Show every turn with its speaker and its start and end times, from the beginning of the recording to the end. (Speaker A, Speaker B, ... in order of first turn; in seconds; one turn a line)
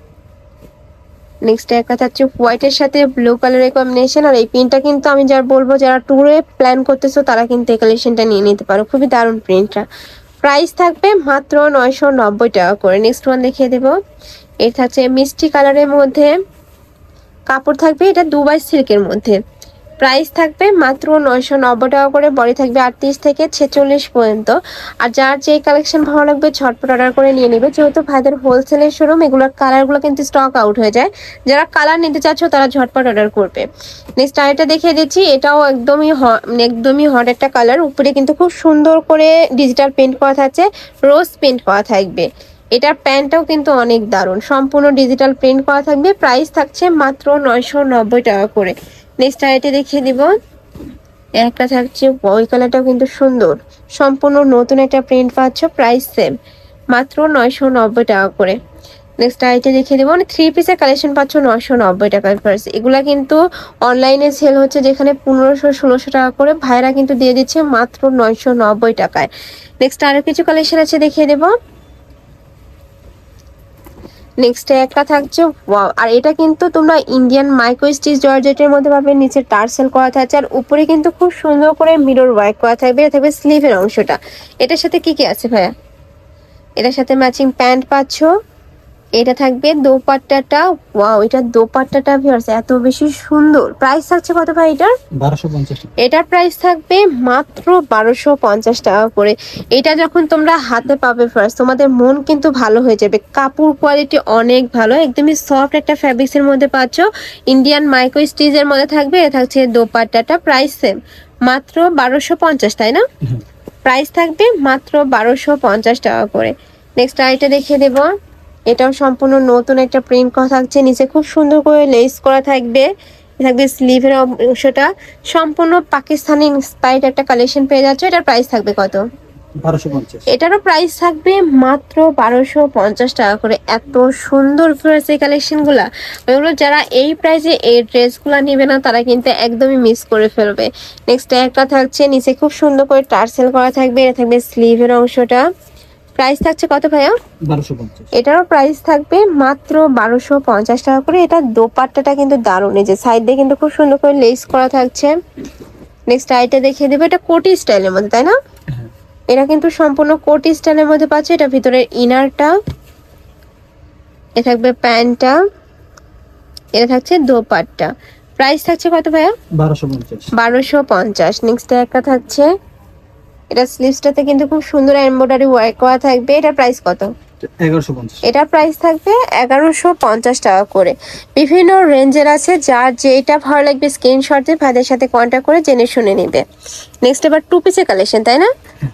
Speaker A: 1.4-9.8
Speaker A: 10.4-13.9
Speaker A: 14.6-16.3
Speaker A: 17.5-19.4
Speaker A: 20.0-33.6
Speaker A: 34.2-50.3
Speaker A: 51.4-56.3
Speaker A: 56.9-58.6
Speaker A: 59.2-69.3
Speaker A: 69.8-71.5
Speaker A: 74.4-85.7
Speaker A: 86.8-88.3
Speaker A: 89.2-94.9
Speaker B: 95.2-95.9
Speaker A: 96.0-113.0
Speaker A: 113.8-118.1
Speaker A: 118.7-122.9
Speaker A: 123.4-129.0
Speaker B: 129.6-130.3
Speaker A: 130.3-145.4
Speaker A: 146.2-147.2
Speaker B: 147.5-148.1
Speaker A: 148.1-155.1
Speaker A: 156.1-158.4
Speaker A: 159.3-162.5
Speaker A: 164.4-165.4
Speaker A: 166.8-169.3
Speaker B: 169.6-170.3
Speaker A: 170.3-172.5
Speaker A: 173.5-177.1
Speaker B: 177.6-178.2
Speaker A: 178.2-186.4
Speaker A: 187.0-188.5